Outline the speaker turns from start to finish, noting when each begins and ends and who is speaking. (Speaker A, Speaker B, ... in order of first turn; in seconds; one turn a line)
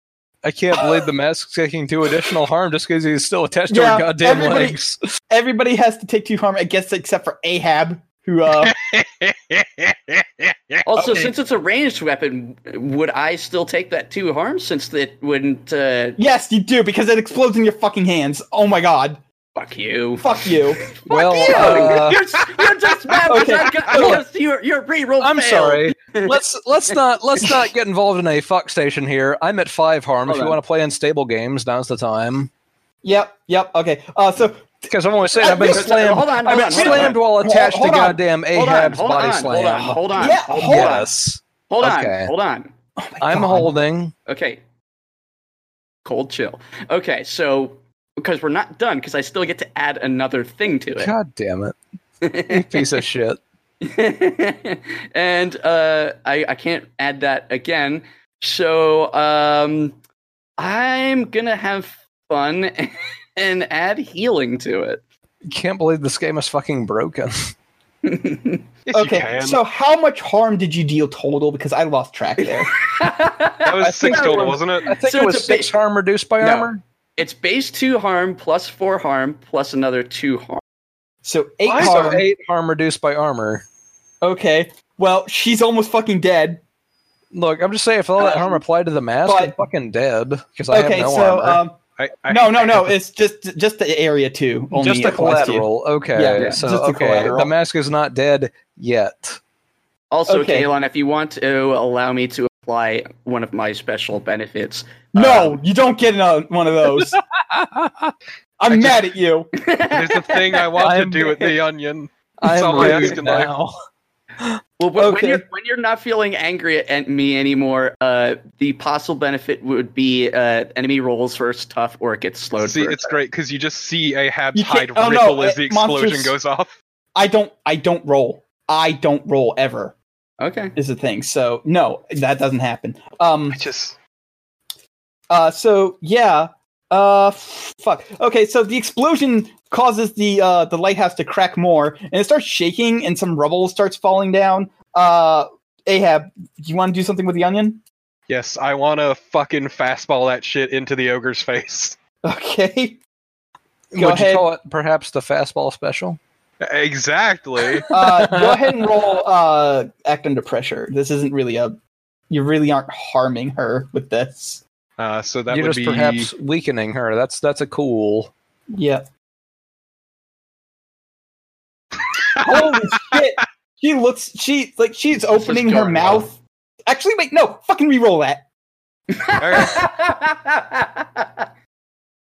Speaker A: 0.4-5.0
Speaker B: 3.7-8.7
Speaker C: 8.6-10.8
Speaker D: 10.8-16.2
Speaker B: 11.0-11.3
Speaker B: 16.2-19.2
Speaker D: 19.5-26.4
Speaker B: 20.2-22.1
Speaker A: 21.1-22.2
Speaker B: 23.3-24.2
Speaker A: 23.9-24.2
Speaker A: 25.2-32.5
Speaker D: 30.2-30.6
Speaker B: 33.0-34.8
Speaker A: 34.9-42.3
Speaker B: 35.3-38.2
Speaker D: 35.6-37.2
Speaker D: 38.5-41.1
Speaker B: 40.1-41.0
Speaker D: 41.7-42.7
Speaker B: 43.0-43.8
Speaker A: 43.2-44.1
Speaker D: 44.2-44.6
Speaker D: 46.0-51.1
Speaker A: 51.0-51.8
Speaker D: 52.2-53.0
Speaker A: 52.5-53.4
Speaker D: 53.8-60.0
Speaker D: 60.6-65.0
Speaker A: 65.5-67.3
Speaker D: 68.0-68.6
Speaker C: 68.9-69.6
Speaker B: 68.9-72.7
Speaker D: 72.4-75.7
Speaker C: 73.6-74.9
Speaker A: 73.8-76.8
Speaker D: 76.4-80.6
Speaker B: 81.2-82.2
Speaker C: 81.7-82.2
Speaker A: 81.7-83.6
Speaker B: 84.2-86.6
Speaker A: 87.3-91.6
Speaker B: 89.2-89.5
Speaker B: 90.7-97.5
Speaker C: 92.0-92.9
Speaker A: 94.7-99.4
Speaker D: 96.4-96.6
Speaker D: 100.1-105.6
Speaker B: 100.3-100.7
Speaker B: 105.1-107.2
Speaker A: 107.0-108.1
Speaker B: 108.6-109.5
Speaker D: 109.6-110.8
Speaker C: 109.9-113.5
Speaker A: 110.8-111.5
Speaker A: 112.4-113.7
Speaker D: 114.8-123.2
Speaker B: 115.0-115.4
Speaker C: 122.6-126.7
Speaker B: 124.5-126.3
Speaker B: 127.1-129.9
Speaker D: 130.4-130.8
Speaker B: 130.8-133.6
Speaker C: 133.5-134.0
Speaker B: 135.3-147.8
Speaker C: 148.3-152.0
Speaker B: 152.2-153.0
Speaker A: 153.9-156.2
Speaker B: 154.0-154.5
Speaker C: 156.6-157.9
Speaker A: 157.6-158.7
Speaker B: 157.9-161.8
Speaker B: 162.3-164.6
Speaker C: 165.0-166.3
Speaker A: 165.5-168.3
Speaker B: 168.7-169.0
Speaker C: 172.3-173.2
Speaker B: 172.4-178.4
Speaker D: 175.3-176.3
Speaker D: 179.1-181.4
Speaker C: 179.3-179.8